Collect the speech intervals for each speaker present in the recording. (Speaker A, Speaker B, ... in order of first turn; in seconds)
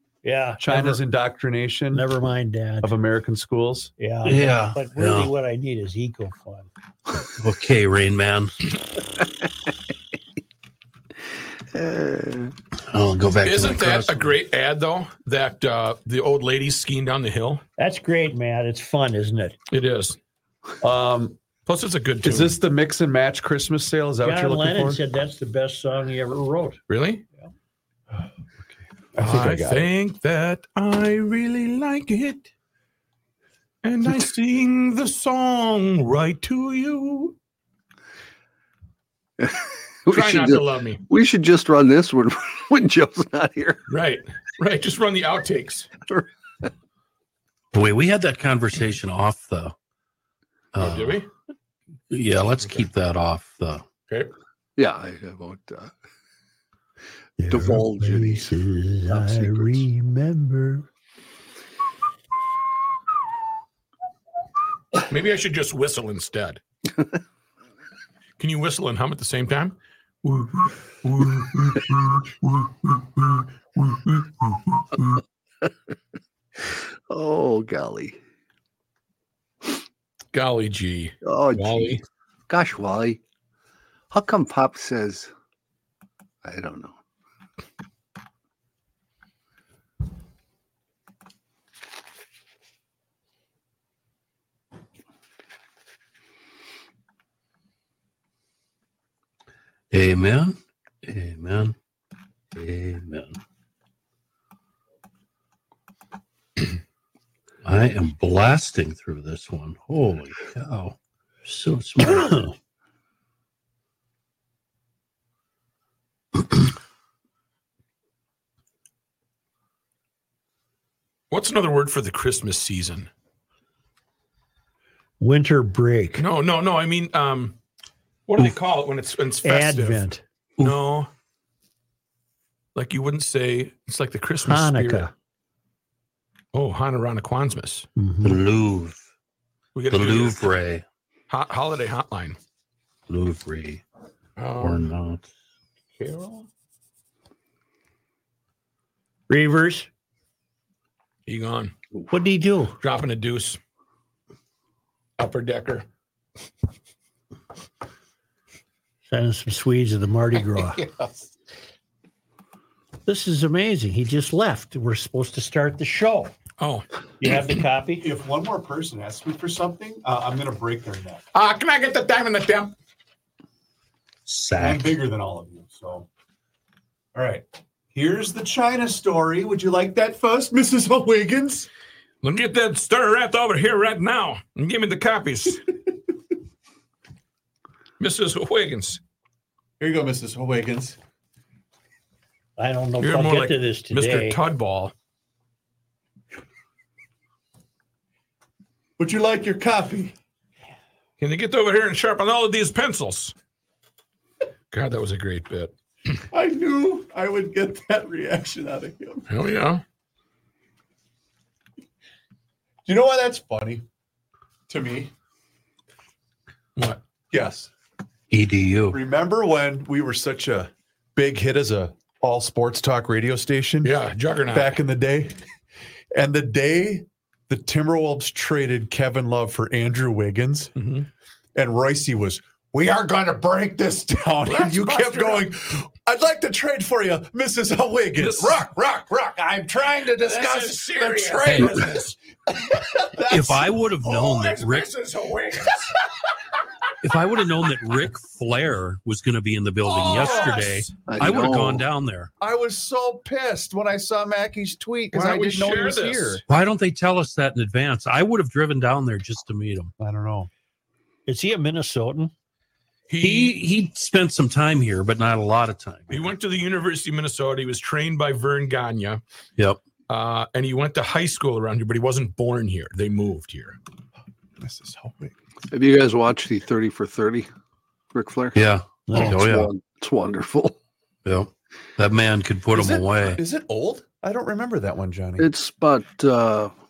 Speaker A: 0.2-1.0, 1.9-2.9, 4.0-6.7, 17.8-19.6, 24.2-26.8, 57.4-60.9, 112.0-112.5, 125.2-126.2, 129.4-130.6, 134.4-135.1, 137.9-138.4, 149.3-149.9, 152.1-152.8, 159.1-160.8, 163.1-166.3, 167.2-168.1, 192.6-194.4, 261.3-262.3, 279.1-279.3
Speaker B: 0.6-2.1, 2.8-3.9, 20.8-21.4, 22.2-25.0, 28.6-29.9, 168.0-171.2, 174.5-176.1, 177.1-181.7, 189.8-191.0, 199.0-200.1, 206.3-209.2, 212.8-213.8, 214.7-215.1, 217.3-217.7, 218.9-224.0, 224.5-225.3, 226.1-230.7, 231.5-243.8, 252.4-256.4, 260.0-260.5, 274.6-275.3, 282.7-285.5
Speaker C: 4.2-5.3, 7.2-8.5, 12.9-14.3, 47.7-49.7, 50.7-51.2, 52.1-53.8, 99.9-101.7, 102.5-103.4, 107.6-112.5, 138.2-139.0, 139.9-140.8, 143.1-143.8, 144.6-145.2, 174.3-174.9, 218.3-219.0, 243.3-244.9, 247.0-252.3, 256.5-259.9, 263.2-266.3, 278.5-279.7, 281.2-283.4
Speaker D: 11.7-12.5, 39.4-43.8, 54.8-55.9, 57.5-58.5, 59.1-59.8, 77.1-78.2, 81.2-83.2, 84.1-85.3, 86.4-86.9, 251.1-251.8, 275.7-277.5, 278.1-278.6, 279.1-280.8, 285.4-286.7
Speaker E: 13.4-17.6, 19.7-20.2, 21.6-22.5, 26.9-27.2, 29.2-32.5, 33.8-37.4, 40.1-41.0, 43.9-45.9, 50.8-51.3, 65.1-66.6, 68.4-75.1, 80.3-82.0, 121.3-123.1, 126.2-127.5, 128.3-130.1, 130.6-131.1, 132.7-135.1, 136.5-137.9, 139.7-140.5, 141.3-142.4, 144.4-144.8, 146.0-146.5, 151.2-151.7, 152.8-153.6, 155.2-155.8, 166.6-166.8, 171.3-172.7, 182.2-185.6, 188.0-189.0, 193.0-194.9, 201.2-203.3, 204.7-205.7, 209.3-209.8, 216.8-217.0, 223.8-224.8, 230.8-231.1, 234.5-235.5, 238.2-238.6, 240.1-242.1, 244.1-245.8, 249.8-250.9, 255.1-256.4, 263.1-263.6, 266.1-269.2, 270.1-273.8